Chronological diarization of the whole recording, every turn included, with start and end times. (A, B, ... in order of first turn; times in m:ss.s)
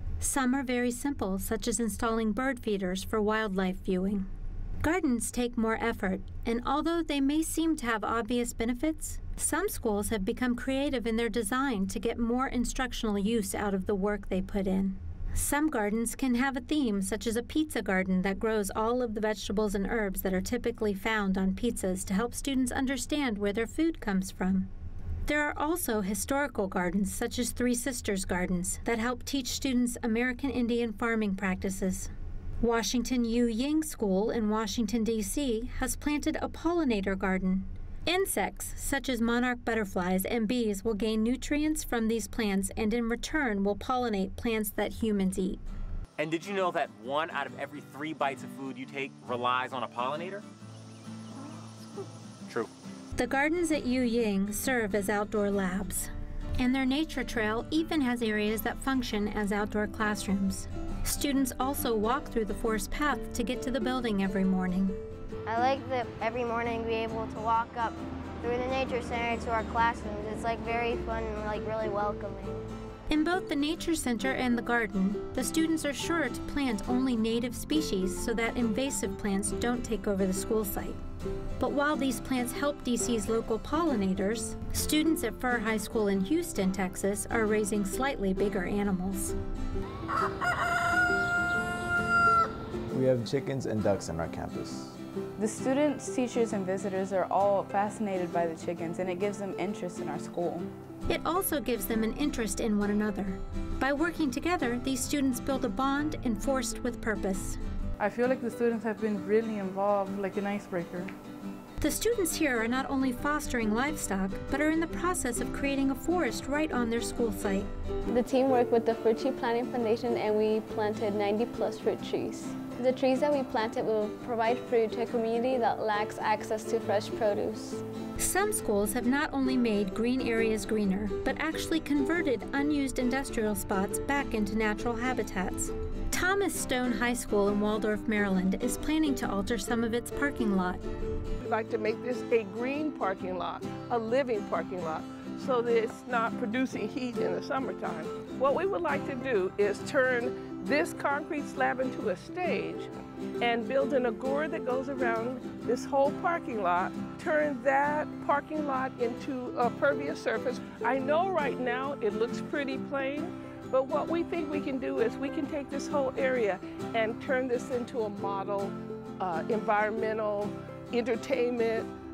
0:00.2-0:04.3 A
0:04.8-0:24.7 A
0:25.2-0:45.6 A
0:46.2-0:50.4 B
0:53.2-1:05.0 A
1:05.4-1:12.6 C
1:13.1-1:21.0 A
1:21.6-1:29.4 A
1:32.9-1:35.0 D
1:35.4-1:40.7 E
1:41.1-1:47.6 A
1:48.0-1:51.1 F
1:51.8-1:57.7 A
1:58.1-2:07.8 G
2:08.2-2:20.8 A
2:21.4-2:32.9 H
2:33.4-2:51.9 H